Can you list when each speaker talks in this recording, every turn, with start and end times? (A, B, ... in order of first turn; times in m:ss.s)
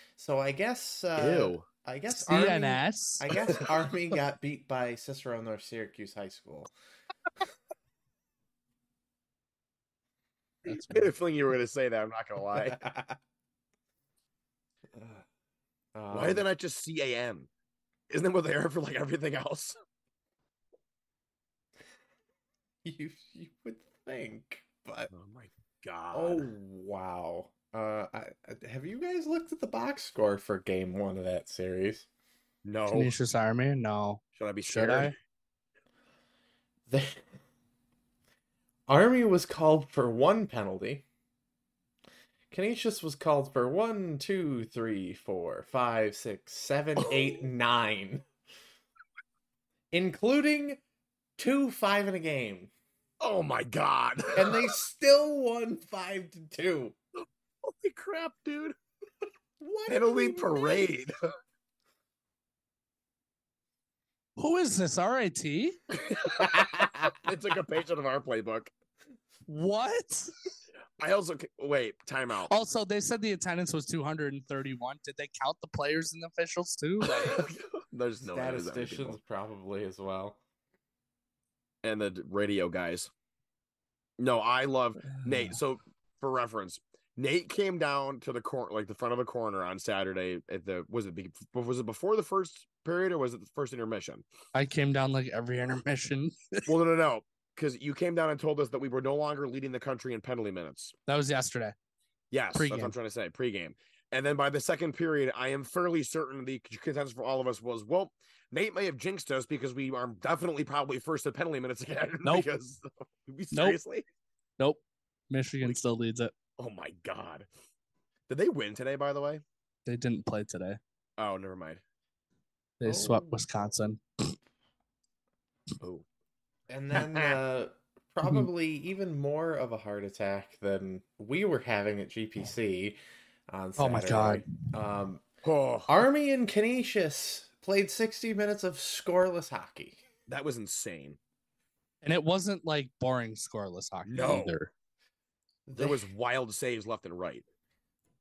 0:00.2-0:06.7 A
0:01.2-0:01.6 B
0:02.1-0:03.3 C
0:10.6-0:11.1 C
0:10.9-0:12.8 B
0:12.5-0:13.2 A
0:14.9-0:15.2 A
0:15.9-0:16.4 A
0:16.1-0:17.5 B
0:18.1-0:19.8 B
0:22.8-0:25.1 A
0:25.1-0:26.5 B
0:26.1-0:32.1 A
0:32.6-0:33.1 B
0:32.9-0:35.1 C
0:34.3-0:35.1 B
0:36.9-0:37.3 A
0:38.9-0:41.0 A
0:42.5-0:48.2 A
0:47.0-0:47.4 B
0:49.9-0:50.8 A
0:51.4-0:52.7 A
0:53.2-0:54.6 B
0:54.3-0:57.0 A
0:57.6-0:58.8 B
0:59.6-1:00.9 A
0:59.9-1:01.1 B
1:04.4-1:05.8 C
1:05.9-1:08.7 B
1:06.4-1:07.3 A
1:09.5-1:10.3 C
1:11.0-1:12.5 B
1:12.5-1:17.5 C
1:17.1-1:19.2 B
1:18.2-1:20.4 A
1:21.8-1:23.1 B
1:24.2-1:34.2 B
1:25.1-1:25.5 C
1:34.5-1:36.6 C
1:36.7-1:40.9 B
1:41.1-1:41.7 C
1:42.3-1:54.0 B
1:42.5-1:42.9 C
1:53.5-1:53.8 C
1:54.6-1:56.3 C
1:56.6-1:57.5 B
1:58.3-1:59.4 B
1:59.8-2:00.8 C
2:01.2-2:01.8 B
2:02.8-2:04.4 C
2:02.8-2:03.4 A
2:05.8-2:06.0 B
2:06.7-2:13.0 A
2:06.9-2:07.4 B
2:13.5-2:15.2 A
2:13.8-2:14.4 C
2:15.4-2:15.9 B
2:15.9-2:20.0 A
2:20.3-2:21.2 B
2:22.0-2:24.7 C
2:24.1-2:24.6 B
2:25.7-2:26.1 A
2:25.7-2:27.4 B